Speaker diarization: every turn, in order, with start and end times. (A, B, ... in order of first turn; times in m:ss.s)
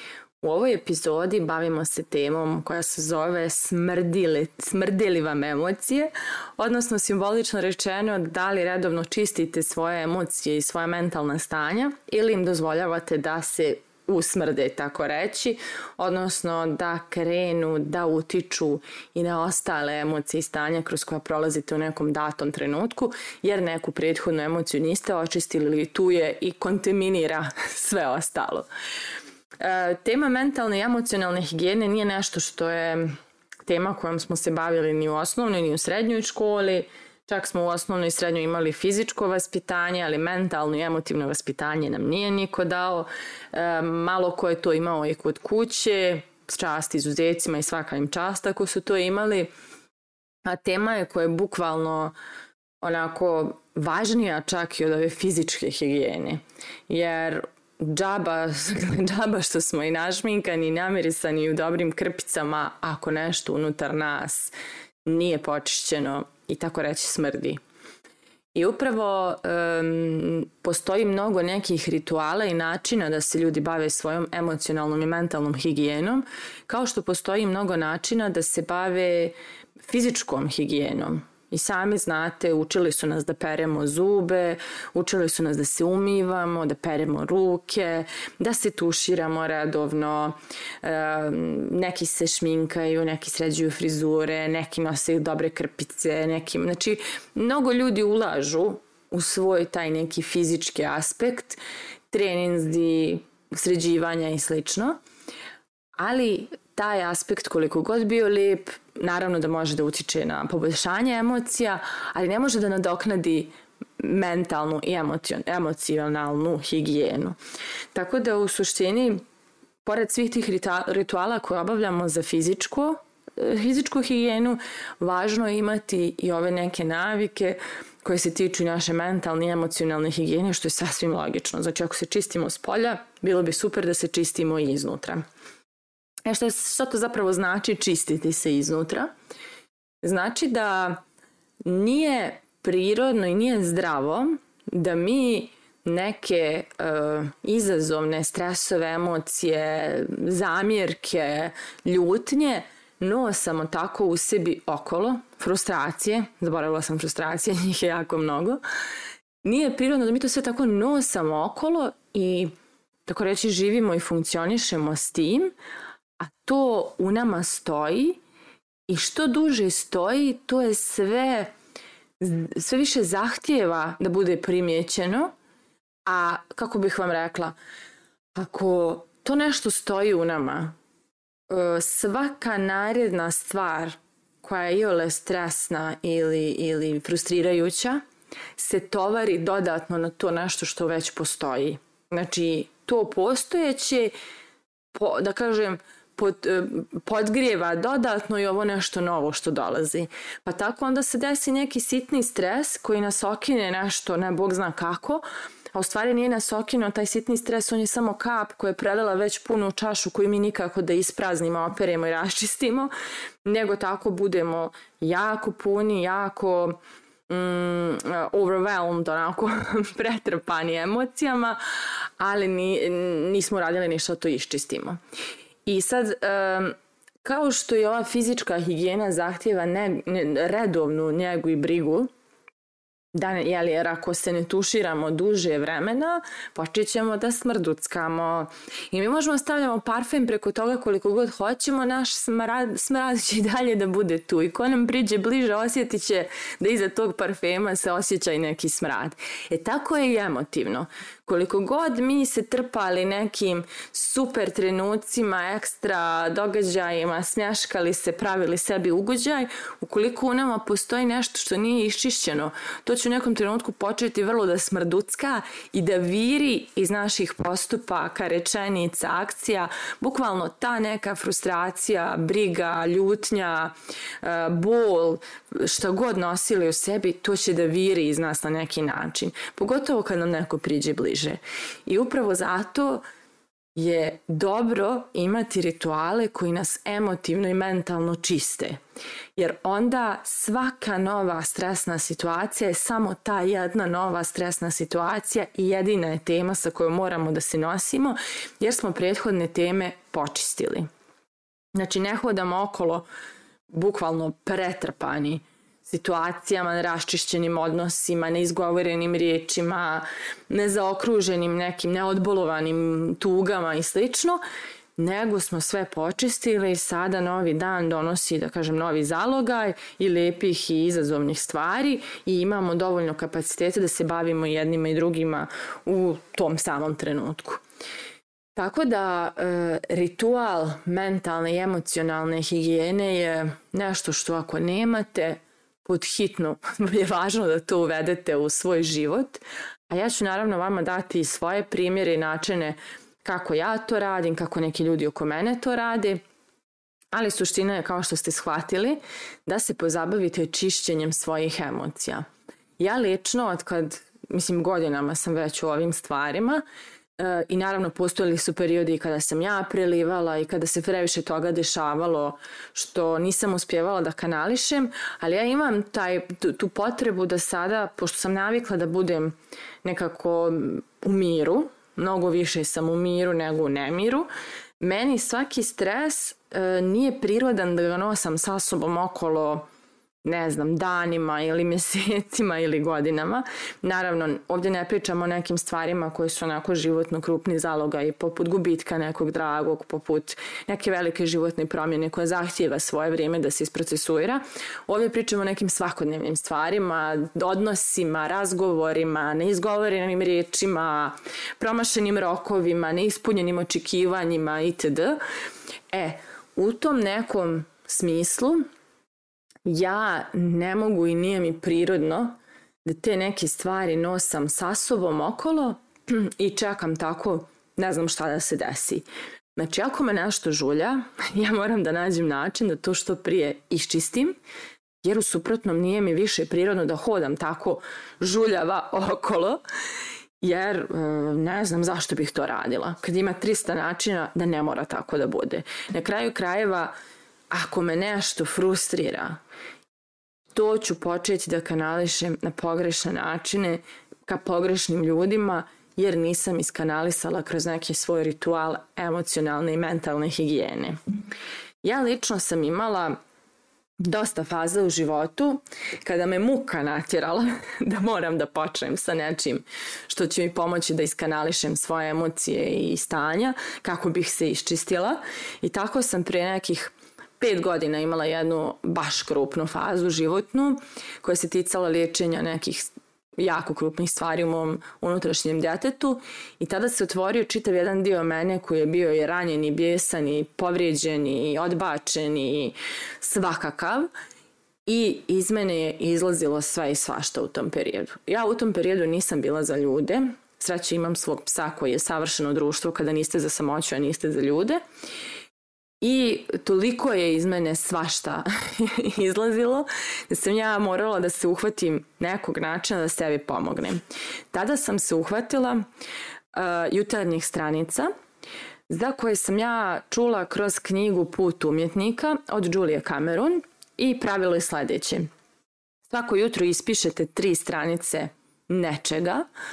0:00.4-0:28.7 A
0:29.6-0:33.1 A
0:33.6-0:49.5 A
0:50.4-0:52.1 A
0:52.8-1:04.5 A
1:05.0-1:07.6 A
1:08.5-1:41.6 A
1:42.1-1:45.0 A
1:46.0-1:57.4 A
1:57.9-1:59.2 A
1:59.8-2:15.2 A
2:16.2-2:19.1 A
2:20.0-2:21.0 A
2:21.6-2:38.6 A
2:39.4-2:42.5 A
2:43.0-2:45.5 A
2:46.2-2:48.2 A
2:48.9-2:51.5 A
2:52.2-2:55.3 A
2:56.0-2:57.6 A
2:58.4-3:00.7 A
3:01.5-3:08.0 A
3:08.6-3:14.1 A
3:14.9-3:32.9 A
3:33.4-3:41.6 A
3:42.2-3:45.0 A
3:45.6-3:52.1 A
3:53.1-4:43.0 A
4:43.7-4:48.8 A
4:49.4-5:00.9 A
5:01.8-5:03.0 A
5:03.7-5:14.4 A
5:15.0-5:27.6 A
5:28.6-5:46.2 A
5:47.1-5:52.2 A
5:52.8-5:56.6 A
5:57.2-6:14.3 A
6:14.8-6:19.7 A
6:20.2-6:45.2 A
6:45.9-6:48.6 A
6:49.6-7:04.4 A
7:05.0-7:09.6 A
7:10.4-7:16.9 A
7:17.5-7:19.4 A
7:20.5-7:31.0 A
7:31.8-7:33.2 A
7:34.0-8:04.1 A
8:04.8-8:14.8 A
8:16.0-8:24.0 A
8:24.5-8:25.8 A
8:26.5-8:28.1 A
8:28.9-8:35.3 A
8:36.1-8:39.4 A